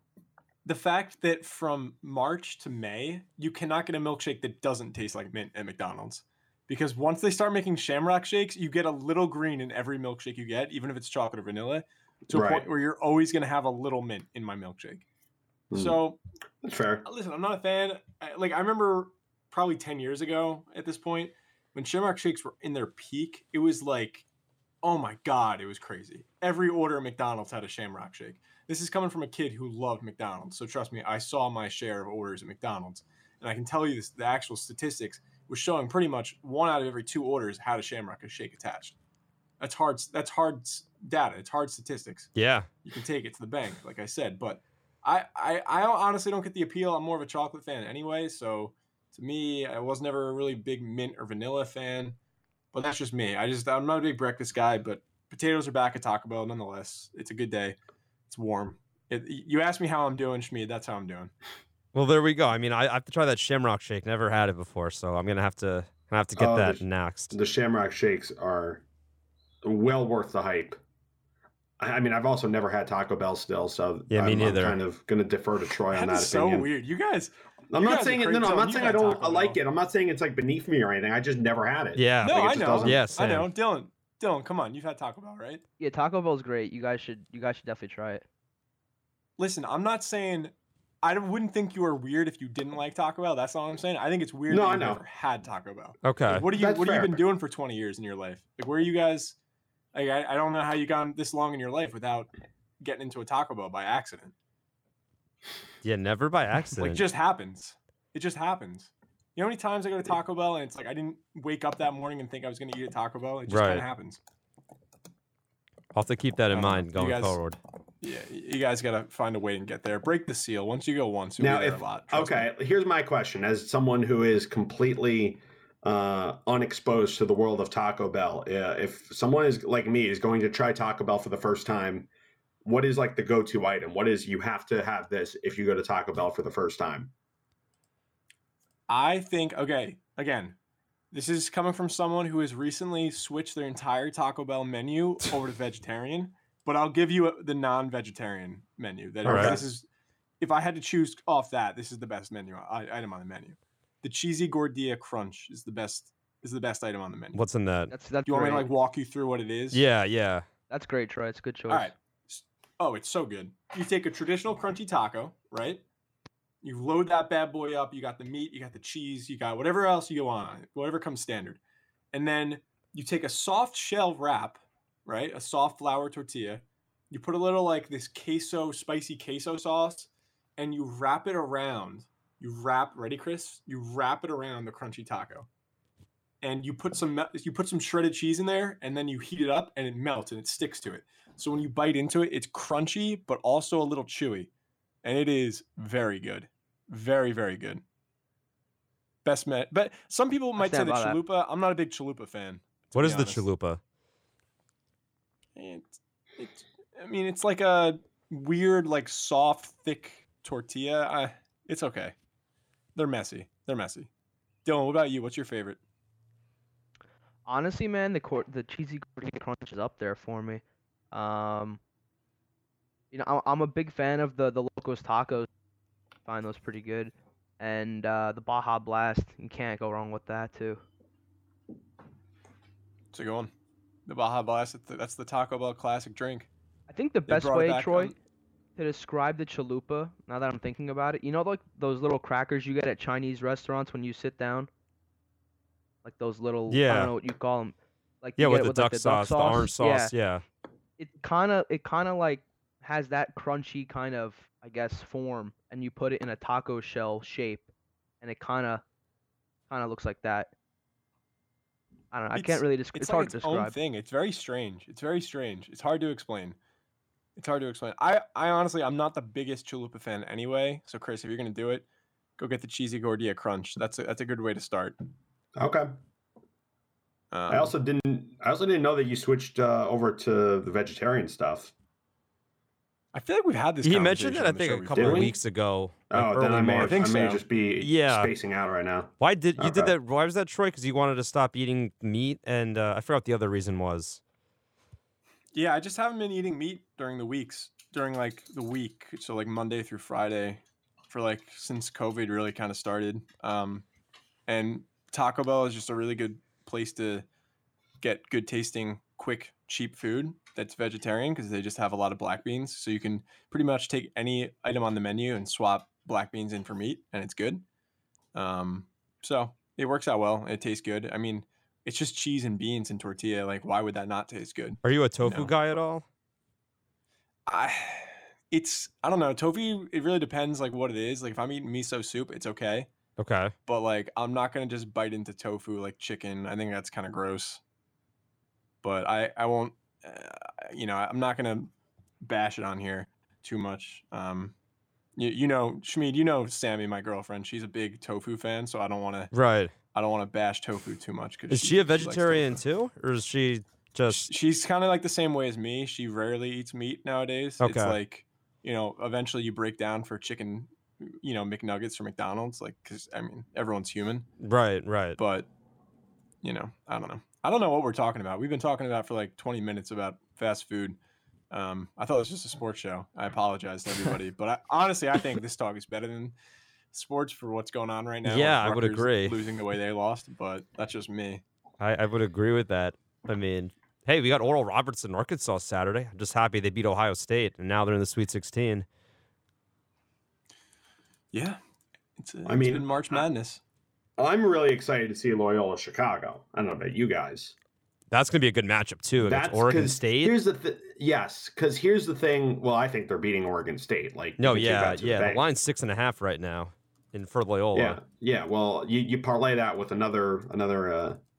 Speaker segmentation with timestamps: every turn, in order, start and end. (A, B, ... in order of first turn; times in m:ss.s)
0:00.6-0:15.0 A
0:12.3-0:12.7 B
0:15.7-0:16.0 B
0:15.7-0:16.2 A
0:16.6-0:17.0 B
0:17.0-0:24.2 A
0:24.8-0:38.9 A
0:39.6-0:42.3 A
0:42.4-0:42.7 C
0:42.8-0:52.2 A
0:52.7-0:57.8 A
0:58.3-1:01.3 A
1:01.9-1:07.3 C
1:06.4-1:08.8 B
1:09.6-1:10.8 B
1:11.8-1:16.7 B
1:14.1-1:14.8 C
1:15.9-1:19.6 A
1:17.7-1:23.0 B
1:22.0-1:23.5 C
1:22.2-1:25.6 A
1:25.8-1:28.2 D
1:29.4-1:39.4 A
1:34.5-1:35.0 B
1:36.0-1:36.4 C
1:36.5-1:37.2 B
1:39.9-1:44.3 A
1:45.8-1:47.0 C
1:46.8-1:54.2 A
1:53.5-1:53.8 C
1:55.9-1:57.6 C
1:56.5-1:57.4 A
1:58.0-2:02.5 A
2:01.4-2:12.1 B
2:12.6-2:17.1 B
2:18.9-2:20.6 A
2:21.1-2:29.9 A
2:29.2-2:29.6 C
2:29.2-2:29.6 B
2:30.4-2:37.4 A
2:37.3-2:37.9 C
2:37.9-2:38.7 D
2:38.2-2:39.8 A
2:39.7-2:40.4 C
2:40.7-2:41.9 D
2:41.7-2:45.8 A
2:46.6-2:51.6 A
2:52.1-3:05.5 A
3:06.4-3:14.5 A
3:15.0-3:17.8 A
3:19.2-3:23.4 A
3:20.6-3:21.2 D
3:22.9-3:23.8 C
3:25.6-3:32.1 A
3:32.9-3:34.1 A
3:34.6-3:35.8 A
3:37.4-3:41.8 D
3:43.1-3:45.5 D
3:46.2-3:50.8 D
3:53.1-3:53.5 A
3:54.1-3:56.5 A
3:56.9-3:58.1 D
3:57.3-3:58.1 A
3:58.8-4:04.7 D
4:06.0-4:10.1 D
4:06.7-4:07.1 C
4:08.4-4:10.4 C
4:11.0-4:17.7 D
4:18.2-4:18.8 D
4:19.7-4:20.5 D
4:22.1-4:23.7 D
4:22.3-4:26.6 A
4:27.4-4:31.8 A
4:32.4-4:35.0 A
4:35.6-4:36.0 B
4:37.3-4:37.7 A
4:37.5-4:41.7 B
4:43.1-4:45.3 A
4:43.8-4:47.0 C
4:44.9-4:45.4 B
4:46.1-4:49.9 B
4:46.8-4:47.4 A
4:47.8-4:48.3 C
4:49.2-4:54.2 C
4:55.5-5:03.8 A
5:04.5-5:07.2 A
5:08.0-5:17.6 A
5:18.3-5:25.5 A
5:24.8-5:26.0 C
5:27.5-5:32.9 A
5:33.2-5:33.5 C
5:33.6-5:37.6 A
5:38.8-5:44.5 A
5:45.2-5:49.3 A
5:49.3-5:49.7 C
5:49.9-5:52.6 A
5:51.5-5:54.3 C
5:54.1-6:04.3 A
5:57.6-5:58.0 C
6:04.4-6:05.2 C
6:05.2-6:05.5 A
6:06.4-6:11.0 A
6:11.5-6:16.3 A
6:16.9-6:21.4 A
6:18.2-6:19.4 C
6:21.8-6:28.8 C
6:31.3-6:31.6 A
6:32.2-6:33.6 A
6:32.4-6:33.2 B
6:34.2-6:37.5 B
6:38.1-6:40.4 C
6:39.2-6:45.4 B
6:44.4-6:48.0 C
6:47.7-6:51.2 B